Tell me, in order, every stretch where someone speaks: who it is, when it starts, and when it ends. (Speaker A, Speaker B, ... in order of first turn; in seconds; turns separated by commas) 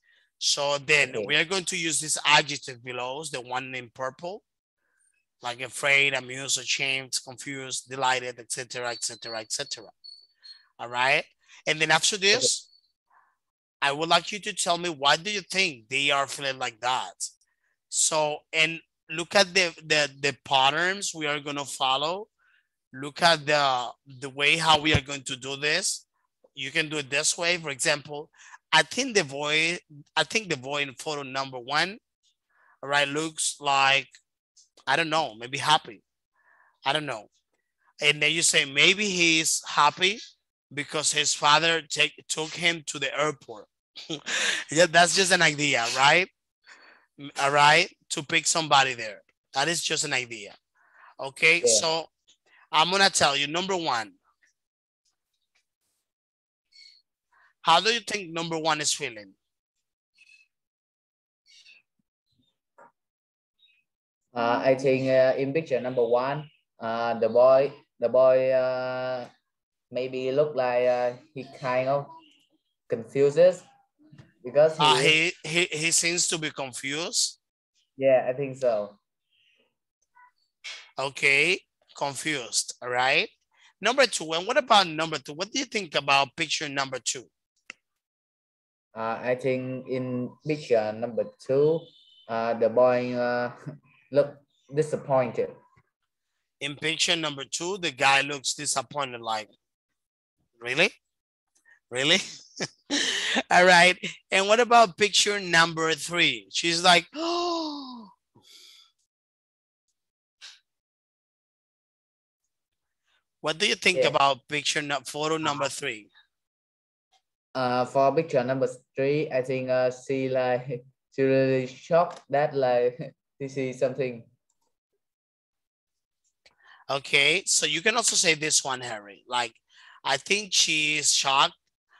Speaker A: 0.4-4.4, Speaker B: 1.0-1.3, Speaker A: 5.4-9.9, Speaker A: 10.8-12.7, Speaker A: 13.8-17.3, Speaker A: 17.9-22.3, Speaker A: 22.9-26.0, Speaker A: 26.6-32.0, Speaker A: 32.8-34.1, Speaker A: 34.9-36.0, Speaker A: 36.8-37.3, Speaker A: 38.0-40.2, Speaker A: 40.7-46.3, Speaker A: 47.2-50.5, Speaker A: 51.2-52.1, Speaker A: 52.7-54.2, Speaker A: 57.6-59.4, Speaker B: 64.3-69.3, Speaker B: 69.9-72.1, Speaker B: 72.9-73.6, Speaker B: 74.4-75.2, Speaker A: 74.8-77.4, Speaker B: 78.0-79.0, Speaker A: 81.0-87.3, Speaker B: 88.9-93.5, Speaker B: 94.1-95.6, Speaker A: 96.6-99.5, Speaker A: 100.6-101.0, Speaker A: 101.9-102.2, Speaker A: 102.9-108.1, Speaker A: 113.4-116.1, Speaker B: 117.5-124.3, Speaker A: 126.9-131.5